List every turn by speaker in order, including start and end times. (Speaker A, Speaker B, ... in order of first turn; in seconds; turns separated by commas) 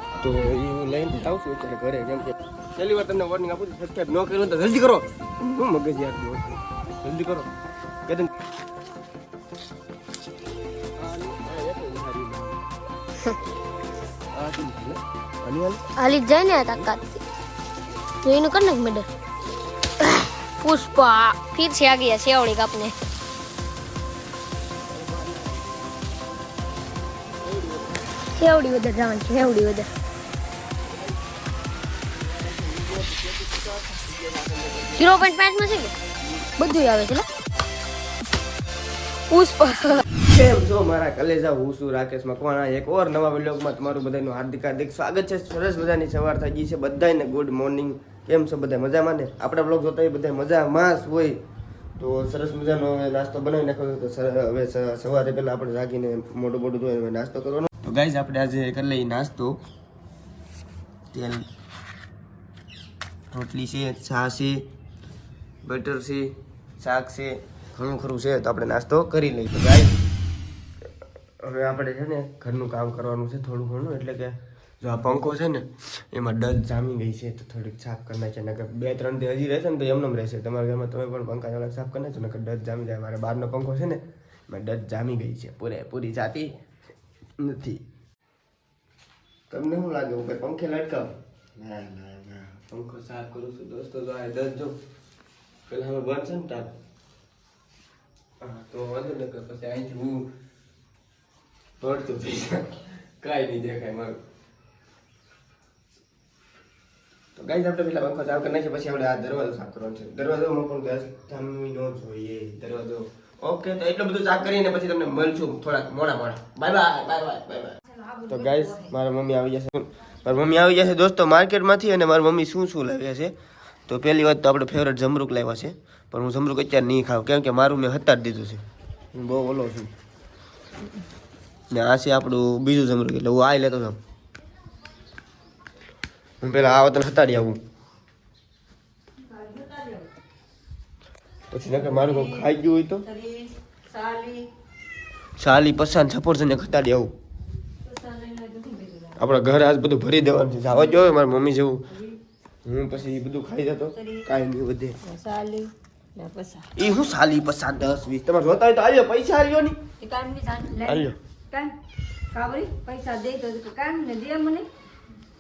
Speaker A: 0.2-7.5, Speaker A: 8.1-8.3, Speaker A: 11.0-12.7, Speaker A: 14.3-15.9, Speaker B: 15.9-17.2, Speaker B: 18.2-19.1, Speaker B: 20.0-22.9, Speaker A: 24.9-25.6, Speaker A: 27.4-28.1, Speaker B: 28.3-29.9, Speaker A: 30.9-31.2, Speaker A: 32.1-35.2, Speaker B: 35.0-36.0, Speaker B: 36.6-37.3, Speaker B: 39.3-40.0, Speaker A: 40.2-51.4, Speaker A: 52.0-59.6, Speaker A: 61.1-61.5, Speaker A: 63.3-64.7, Speaker A: 65.6-70.0, Speaker A: 71.4-86.6, Speaker A: 87.4-87.8, Speaker A: 89.5-94.8, Speaker A: 95.7-96.8, Speaker A: 98.4-100.3, Speaker A: 101.8-104.2, Speaker A: 107.4-123.3, Speaker C: 117.9-118.9, Speaker A: 123.9-129.9, Speaker A: 131.7-134.0, Speaker A: 136.4-137.6, Speaker C: 139.2-140.1, Speaker A: 141.5-143.1, Speaker C: 141.9-142.4, Speaker C: 143.1-144.5, Speaker A: 145.4-147.1, Speaker C: 147.8-149.2, Speaker A: 149.2-151.9, Speaker A: 152.7-155.0, Speaker C: 154.0-154.2, Speaker C: 155.0-156.7, Speaker A: 156.8-159.8, Speaker C: 160.0-161.8, Speaker A: 160.8-161.2, Speaker C: 162.3-164.7